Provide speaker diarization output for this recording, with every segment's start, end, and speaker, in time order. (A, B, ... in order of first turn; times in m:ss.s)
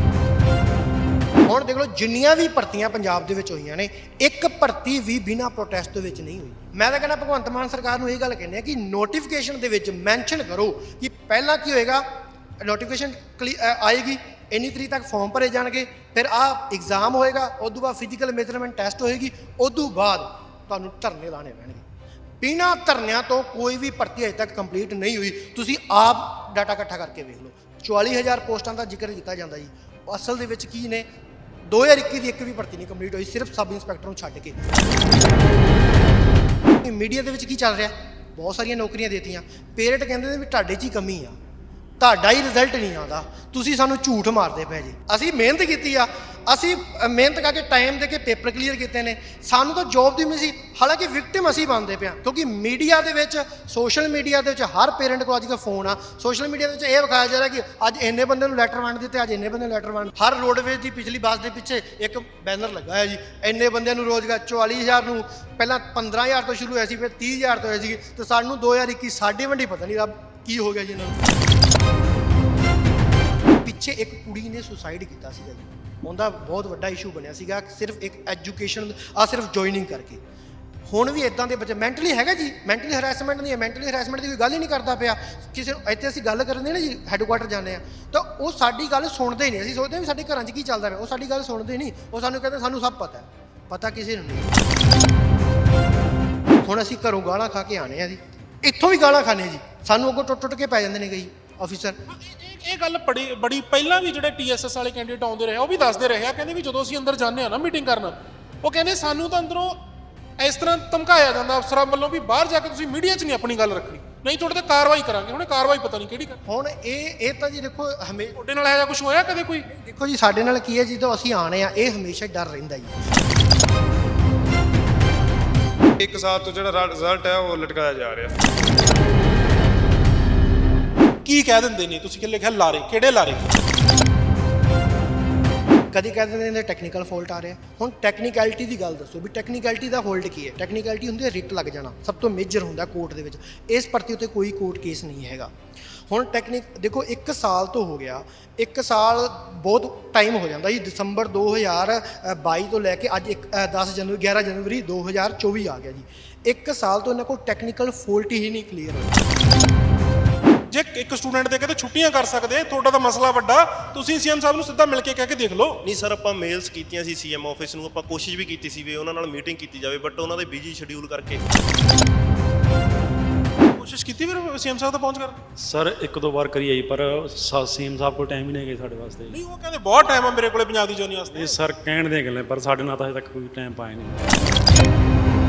0:01.4-0:12.0 A
0:12.6-0:21.8 A
0:22.4-0:31.1 A
0:31.7-0:34.6 A
0:36.8-0:41.4 A
0:42.0-1:11.3 A
1:13.6-1:20.2 A
1:20.9-1:34.5 A
1:36.6-1:42.0 A
1:42.2-1:49.8 B
1:50.4-1:56.4 B
1:56.4-1:58.4 A
1:58.4-1:59.6 B
1:59.7-2:03.0 A
2:06.0-2:08.3 C
2:11.2-2:13.6 B
2:15.9-2:25.5 A
2:26.1-2:39.2 A
2:40.7-2:45.8 B
2:45.8-2:51.4 D
2:53.7-2:55.4 B
2:55.6-2:59.4 E
2:59.3-3:01.6 B
3:01.3-3:04.3 E